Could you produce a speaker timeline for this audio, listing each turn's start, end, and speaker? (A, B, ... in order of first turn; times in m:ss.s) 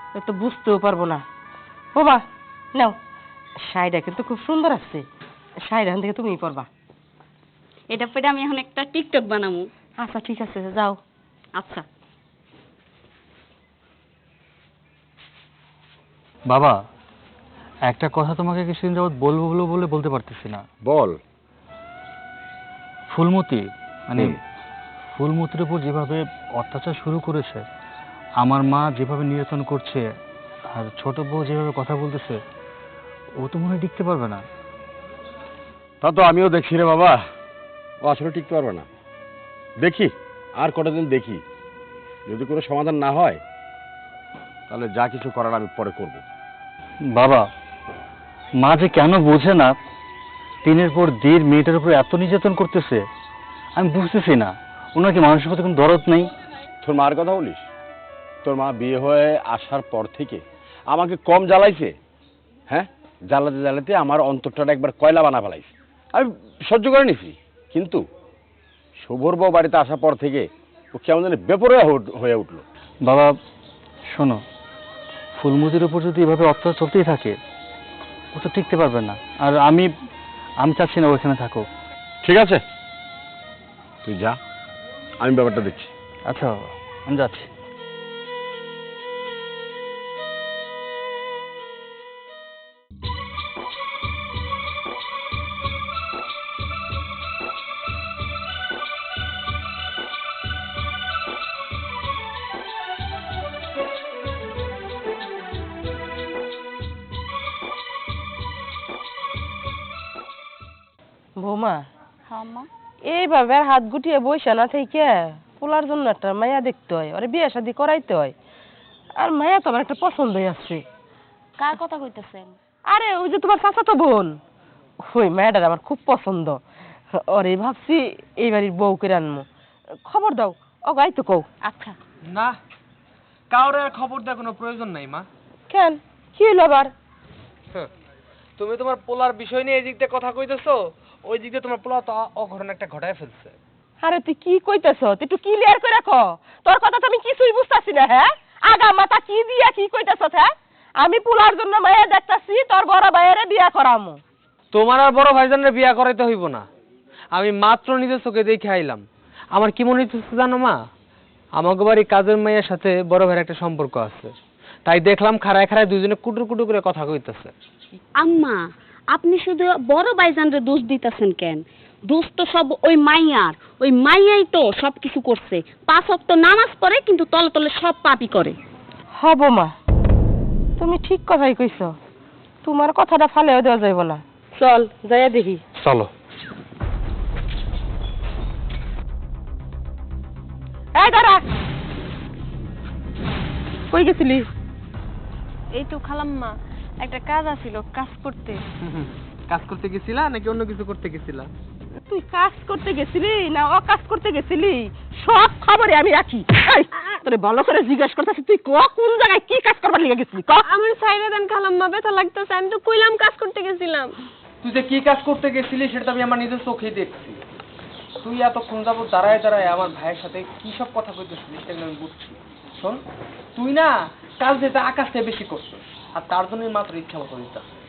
0:00.2-0:01.2 A
0:02.0-0:02.2 A
0:03.7-0:05.0 A
0:05.7-0:06.7 A
0:07.9-0:09.7 B
0:10.0-0:11.0 A
0:11.6-0:11.9 B
0:16.5-0:16.8 C
0:17.9-0:20.6 C
0:20.8-0:21.2 D
0:23.1-0:24.4 C
0:25.1-0:27.6 C
0:28.4-0:30.1 C
0:30.7-0:32.4 C
0:33.4-0:34.4 C
0:36.0-0:37.2 D
0:38.0-0:38.9 D
0:39.8-0:41.4 D
0:42.3-0:43.4 D
0:44.7-0:46.2 D
0:47.1-0:47.5 C
0:48.6-0:49.8 C
0:50.6-0:53.0 C
0:53.8-0:56.3 C
0:56.8-0:57.6 D
0:58.4-1:02.0 D
1:02.7-1:08.0 D
1:09.0-1:12.6 D
1:13.1-1:13.3 C
1:14.1-1:14.4 C
1:15.4-1:17.4 C
1:18.3-1:19.9 C
1:20.6-1:21.6 C
1:22.2-1:22.6 D
1:24.0-1:24.4 D
1:25.2-1:25.9 D
1:26.3-1:27.5 C
1:51.4-1:51.8 A
1:52.3-1:52.7 B
1:53.1-1:58.3 A
1:59.2-2:00.8 A
2:01.6-2:02.6 B
2:02.9-2:04.4 A
2:05.0-2:06.6 A
2:07.1-2:09.5 A
2:10.0-2:11.5 A
2:11.6-2:12.0 B
2:12.3-2:12.6 E
2:13.5-2:15.3 E
2:15.7-2:16.9 A
2:18.6-2:23.6 E
2:24.0-2:34.2 A
2:34.7-2:36.7 E
2:37.3-2:39.0 E
2:39.6-2:40.8 E
2:41.6-2:44.3 E
2:44.9-2:47.5 E
2:48.2-2:58.6 B
2:59.2-2:59.7 A
3:00.8-3:01.9 A
3:02.6-3:05.6 A
3:05.8-3:06.1 E
3:11.0-3:11.4 A
3:13.9-3:14.5 A
3:15.8-3:18.6 F
3:18.8-3:21.5 E
3:22.1-3:30.6 A
3:30.7-3:34.2 F
3:34.6-3:37.4 E
3:38.2-3:43.0 E
3:43.6-3:47.6 E